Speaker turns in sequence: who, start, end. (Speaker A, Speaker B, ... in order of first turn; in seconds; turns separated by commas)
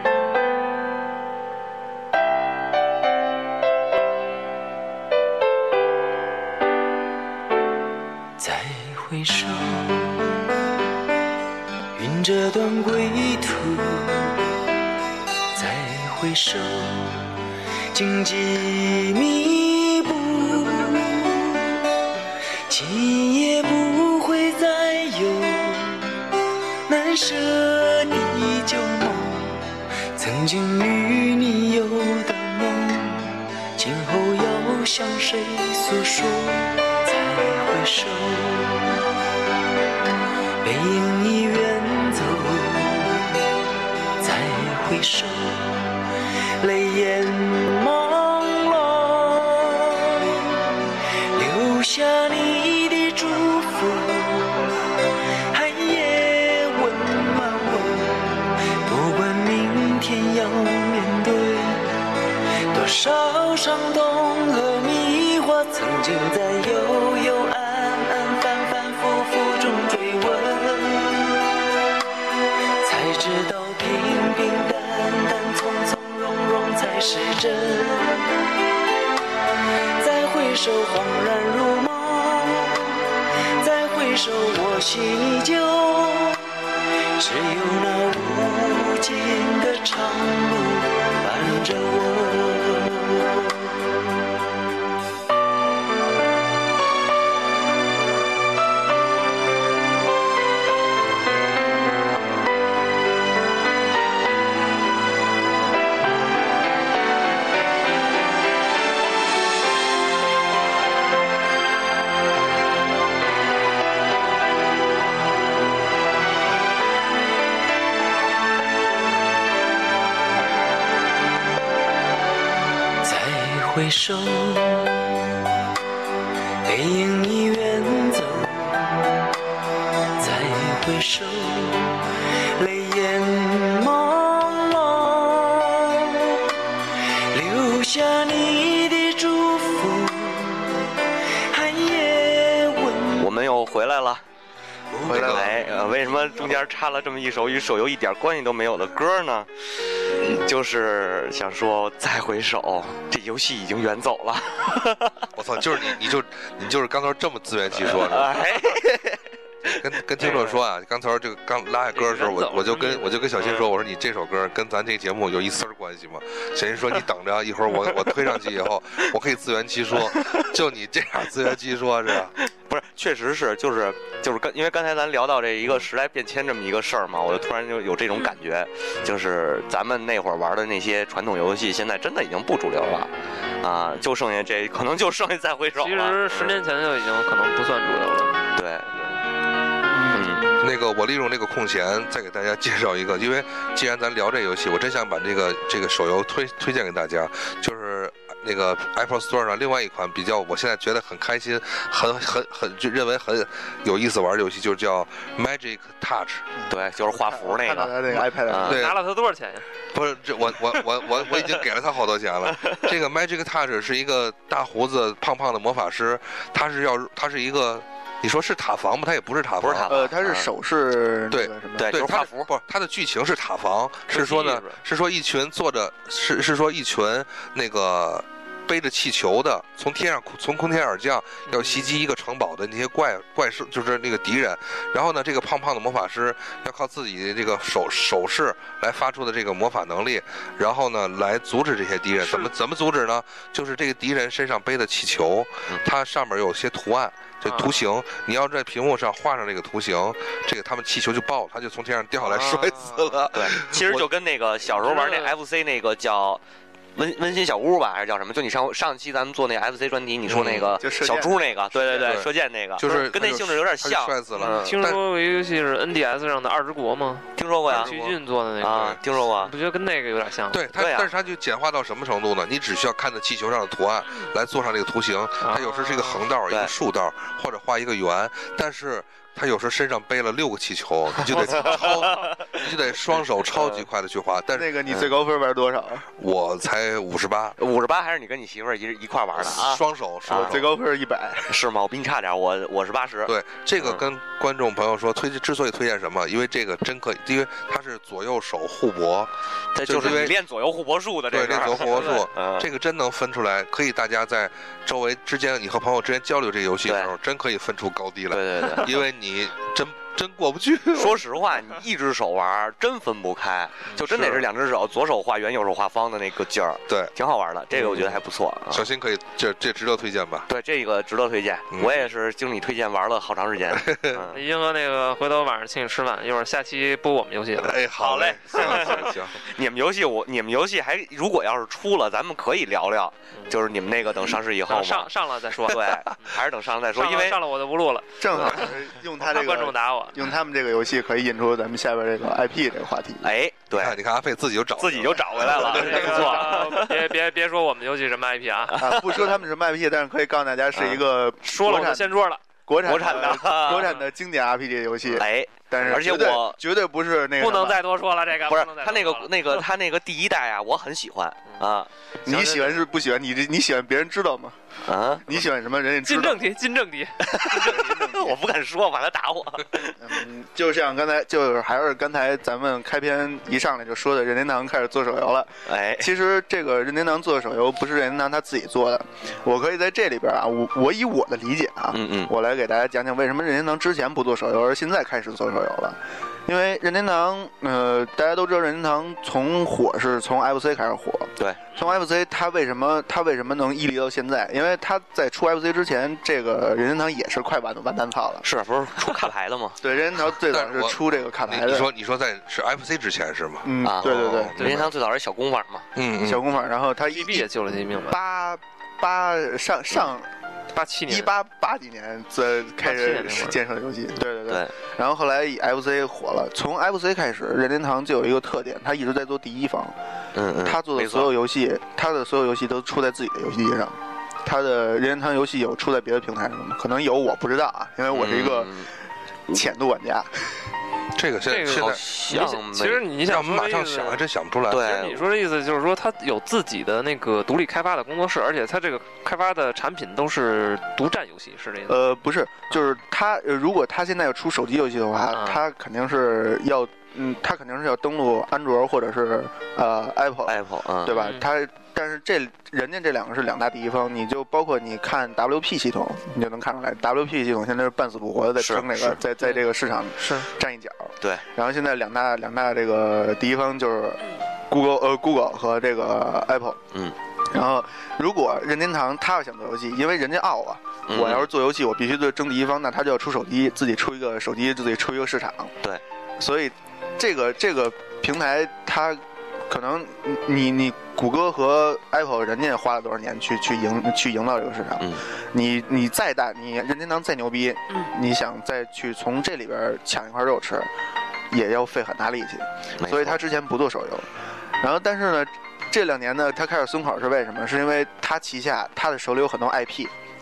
Speaker A: 8.4-10.3, Speaker A: 11.9-14.3, Speaker A: 15.5-17.3, Speaker A: 17.9-21.8, Speaker A: 22.7-26.1, Speaker A: 26.9-39.0, Speaker A: 40.6-43.3, Speaker A: 44.2-46.0, Speaker A: 46.6-50.7, Speaker A: 51.3-54.7, Speaker A: 55.5-62.1, Speaker A: 62.7-71.4, Speaker A: 72.8-78.3, Speaker A: 80.0-83.0, Speaker A: 83.6-86.5, Speaker A: 87.2-93.8, Speaker A: 123.0-125.2, Speaker A: 126.6-129.2, Speaker A: 130.2-143.3, Speaker B: 143.2-144.2, Speaker A: 144.9-145.3, Speaker C: 145.0-145.7, Speaker D: 145.1-145.6, Speaker B: 145.1-155.3, Speaker A: 145.8-146.5, Speaker C: 155.3-158.5, Speaker B: 157.7-159.2, Speaker C: 159.6-172.3, Speaker E: 160.2-160.6, Speaker E: 161.9-163.5, Speaker B: 163.4-163.7, Speaker B: 170.1-170.5, Speaker B: 172.3-183.1, Speaker B: 183.6-186.6, Speaker E: 185.8-189.2, Speaker B: 188.6-188.9, Speaker B: 190.1-190.5, Speaker C: 190.6-206.5, Speaker D: 206.6-208.8, Speaker B: 206.7-208.8, Speaker C: 208.6-209.0, Speaker E: 208.6-209.7, Speaker C: 209.9-220.1, Speaker B: 212.5-212.8, Speaker B: 219.6-220.5, Speaker D: 219.9-222.1, Speaker C: 221.3-254.1, Speaker B: 221.8-222.5, Speaker B: 224.1-224.6, Speaker E: 231.5-231.9, Speaker E: 242.2-242.5, Speaker E: 247.4-247.8, Speaker E: 252.2-253.2, Speaker B: 253.3-256.4, Speaker E: 254.7-255.3, Speaker B: 256.9-264.8, Speaker C: 260.3-260.8, Speaker D: 260.8-262.2, Speaker C: 262.0-265.0, Speaker E: 264.4-270.7, Speaker B: 267.4-268.0, Speaker C: 267.7-268.1, Speaker B: 268.6-269.5, Speaker C: 270.5-285.0, Speaker B: 270.8-271.1, Speaker E: 275.4-276.2, Speaker B: 281.5-282.6, Speaker B: 283.4-283.9, Speaker D: 284.5-286.1, Speaker C: 286.1-287.6, Speaker B: 287.6-290.6, Speaker C: 289.4-290.7, Speaker D: 290.3-291.6, Speaker B: 291.5-294.1, Speaker C: 293.2-299.3, Speaker B: 299.7-302.7, Speaker C: 299.8-300.4, Speaker C: 301.3-311.2, Speaker B: 306.9-307.1, Speaker B: 308.3-308.9, Speaker B: 310.9-318.9, Speaker C: 314.1-314.4, Speaker C: 316.9-317.1, Speaker C: 317.7-320.5, Speaker B: 320.5-324.4, Speaker C: 321.7-322.0, Speaker C: 323.7-324.2, Speaker E: 324.3-327.8, Speaker C: 327.6-329.4, Speaker B: 327.9-337.4, Speaker E: 334.6-335.9, Speaker E: 336.9-340.2, Speaker D: 338.2-343.3, Speaker B: 343.2-344.0, Speaker C: 343.7-346.4, Speaker B: 344.8-347.0, Speaker E: 345.5-348.8, Speaker D: 345.7-346.8, Speaker B: 348.7-349.3, Speaker D: 348.8-352.1, Speaker B: 350.7-351.0, Speaker E: 351.4-354.0, Speaker D: 352.7-357.8, Speaker B: 352.8-354.0, Speaker B: 355.1-356.6, Speaker E: 357.4-359.6, Speaker B: 358.5-361.9, Speaker E: 362.2-362.8, Speaker D: 362.2-364.6, Speaker B: 364.9-365.3, Speaker D: 365.2-366.4, Speaker E: 366.0-367.8, Speaker B: 367.2-370.2, Speaker D: 367.4-368.4, Speaker D: 370.0-398.4, Speaker B: 375.6-376.1, Speaker B: 381.9-382.3, Speaker B: 398.4-399.8, Speaker D: 399.8-401.9, Speaker C: 400.4-404.9, Speaker D: 403.6-404.5, Speaker B: 403.8-405.9, Speaker E: 404.6-404.9, Speaker C: 405.9-406.4, Speaker D: 406.2-410.3, Speaker E: 407.1-408.2, Speaker E: 410.7-411.3, Speaker D: 411.1-419.9, Speaker E: 412.8-413.6, Speaker B: 420.3-421.3, Speaker D: 420.6-428.8, Speaker B: 428.1-428.9, Speaker D: 429.5-430.3, Speaker C: 431.1-432.0, Speaker E: 431.5-434.2, Speaker B: 431.7-433.0, Speaker C: 433.2-434.9, Speaker B: 434.7-435.2, Speaker E: 434.8-442.0, Speaker D: 441.9-466.8, Speaker E: 445.3-445.6, Speaker B: 450.4-451.2, Speaker E: 451.1-451.5, Speaker B: 458.6-459.2, Speaker E: 460.2-460.5, Speaker D: 467.5-475.7, Speaker B: 471.1-471.5, Speaker D: 476.4-490.9, Speaker D: 491.5-494.3, Speaker B: 493.0-493.4, Speaker D: 494.8-500.1